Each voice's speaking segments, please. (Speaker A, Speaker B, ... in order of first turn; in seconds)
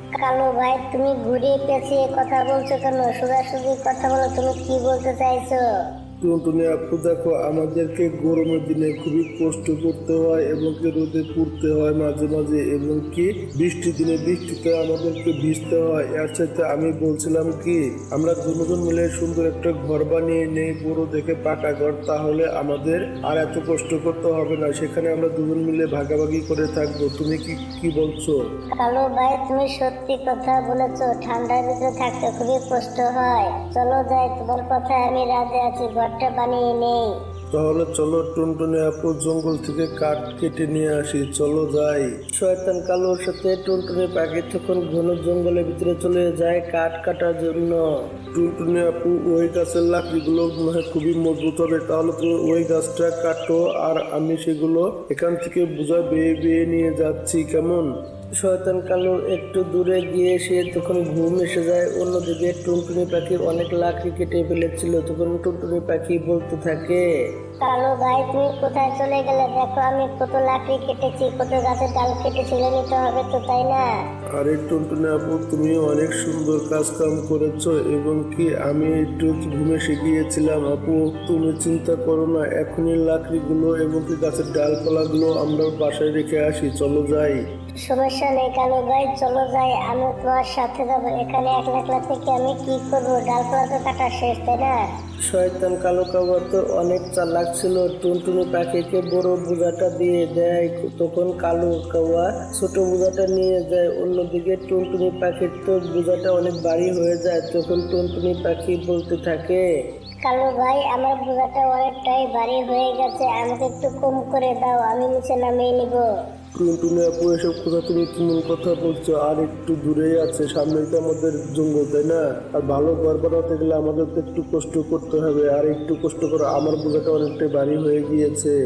Speaker A: 0.2-5.6, 28.8-37.1, 67.6-73.8, 87.8-94.9, 110.2-116.0
Speaker B: 6.2-28.4, 37.5-42.1, 48.3-57.9, 74.3-87.4, 116.5-128.5
Speaker C: 42.3-47.8, 58.4-67.0, 95.3-109.6